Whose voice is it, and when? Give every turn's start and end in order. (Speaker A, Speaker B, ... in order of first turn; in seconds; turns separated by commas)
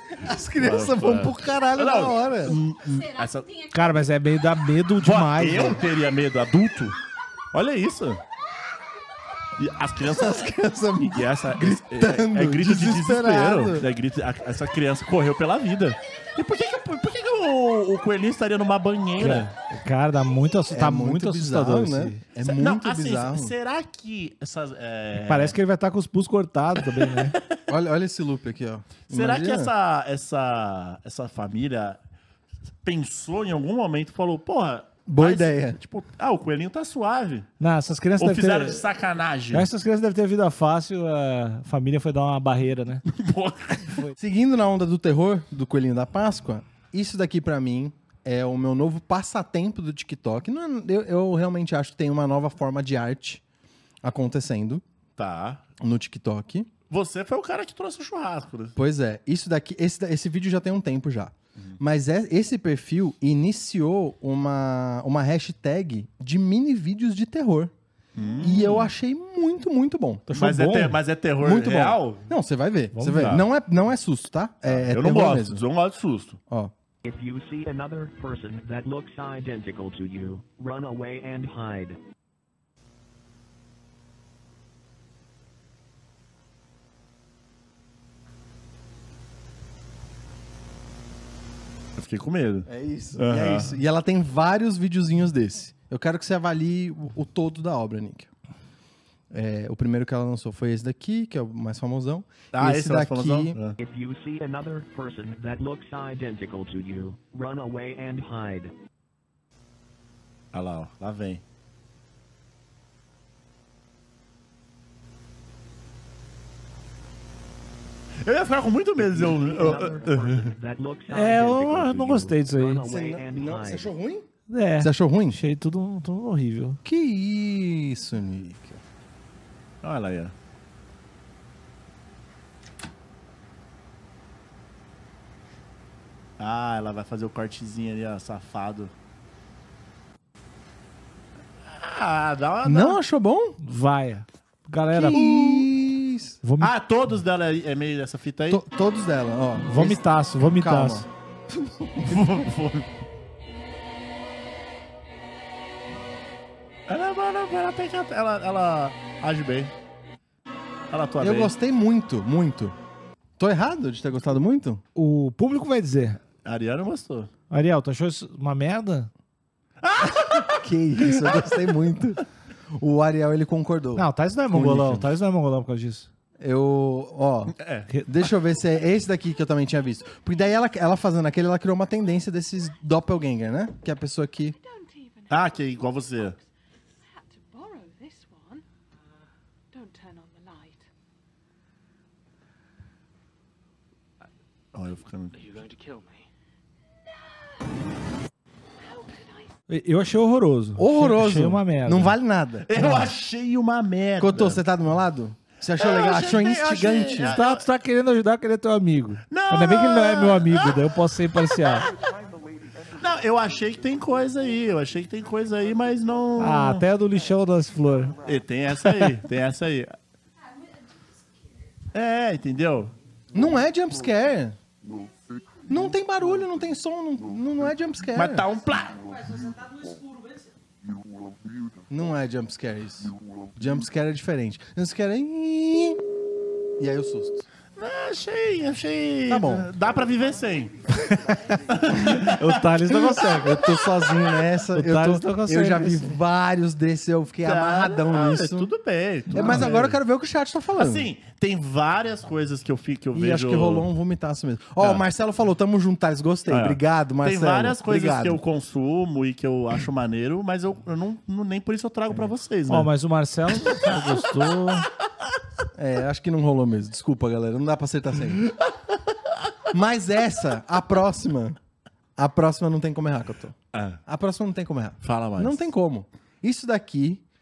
Speaker A: 0.2-2.6, Speaker B: 0.6-3.5, Speaker C: 3.2-3.7, Speaker D: 3.7-5.8, Speaker B: 5.0-7.0, Speaker B: 7.5-8.2, Speaker B: 9.6-10.5, Speaker A: 10.1-13.9, Speaker B: 11.0-19.5, Speaker D: 19.2-22.2, Speaker A: 20.7-23.5, Speaker B: 22.4-25.6, Speaker D: 25.2-27.4, Speaker B: 27.0-27.4, Speaker A: 27.7-29.7, Speaker B: 29.1-32.0, Speaker B: 32.8-37.5, Speaker A: 35.0-35.8, Speaker D: 37.6-38.8, Speaker B: 38.2-39.7, Speaker D: 39.5-43.0, Speaker B: 43.1-44.0, Speaker A: 44.1-53.4, Speaker A: 54.0-54.8, Speaker B: 55.2-55.6, Speaker A: 55.8-56.7, Speaker B: 56.9-58.8, Speaker A: 58.8-67.7, Speaker B: 68.1-68.9, Speaker A: 68.4-70.3, Speaker D: 70.3-71.0, Speaker B: 70.3-72.2, Speaker A: 71.4-75.6, Speaker D: 72.9-73.4, Speaker B: 73.2-73.4, Speaker B: 74.6-76.4, Speaker E: 77.0-82.0, Speaker B: 92.0-93.7, Speaker A: 92.7-98.3, Speaker A: 99.3-103.6, Speaker B: 102.5-103.8, Speaker E: 103.8-108.7, Speaker B: 110.5-111.4, Speaker B: 118.2-120.5, Speaker E: 119.1-123.9, Speaker D: 121.1-122.8, Speaker A: 122.8-124.3, Speaker D: 124.5-126.8, Speaker A: 124.8-125.4, Speaker A: 126.8-128.8, Speaker B: 129.8-130.3, Speaker B: 136.4-138.9, Speaker B: 141.7-143.0, Speaker A: 142.6-143.6, Speaker D: 143.6-145.6, Speaker A: 144.9-146.4, Speaker D: 146.4-146.7, Speaker B: 146.6-148.6, Speaker A: 148.5-152.5, Speaker D: 149.6-151.0, Speaker B: 152.0-152.9, Speaker B: 156.9-159.7, Speaker B: 160.9-161.5, Speaker A: 161.2-162.7, Speaker A: 163.4-164.8, Speaker D: 164.9-166.2, Speaker B: 166.4-167.3, Speaker D: 167.5-169.1, Speaker B: 169.8-171.5, Speaker A: 170.3-172.2, Speaker A: 172.8-175.1, Speaker D: 173.9-176.1, Speaker A: 176.4-177.5, Speaker B: 177.6-177.9, Speaker D: 177.9-178.1, Speaker A: 178.1-184.6, Speaker C: 184.5-186.5, Speaker B: 185.3-186.4, Speaker C: 187.0-188.6, Speaker C: 189.7-190.9, Speaker B: 194.7-196.0, Speaker C: 198.8-199.5, Speaker D: 199.7-202.2, Speaker A: 200.8-203.0, Speaker B: 202.6-204.6, Speaker A: 204.2-207.3, Speaker B: 205.8-207.7, Speaker D: 207.2-211.9, Speaker B: 209.3-210.9, Speaker E: 212.1-212.3, Speaker B: 212.9-216.8, Speaker D: 216.4-218.2, Speaker B: 218.2-219.9, Speaker B: 221.9-222.9, Speaker A: 223.3-224.6, Speaker A: 225.7-228.5, Speaker B: 228.1-229.2, Speaker A: 231.9-236.0, Speaker A: 236.8-237.4, Speaker B: 237.8-240.7, Speaker D: 239.3-239.7, Speaker D: 240.9-243.7, Speaker B: 241.7-242.6, Speaker A: 242.9-248.7, Speaker D: 244.7-246.2, Speaker B: 247.4-249.9, Speaker D: 249.3-249.8, Speaker A: 249.3-251.1, Speaker B: 250.8-253.9, Speaker A: 253.1-258.4, Speaker B: 254.8-255.0, Speaker B: 256.5-262.9, Speaker D: 262.7-264.9, Speaker B: 263.7-264.0, Speaker A: 265.8-268.5, Speaker A: 269.7-271.6, Speaker A: 272.2-273.5, Speaker B: 273.7-274.0, Speaker A: 274.1-277.2, Speaker B: 275.0-275.6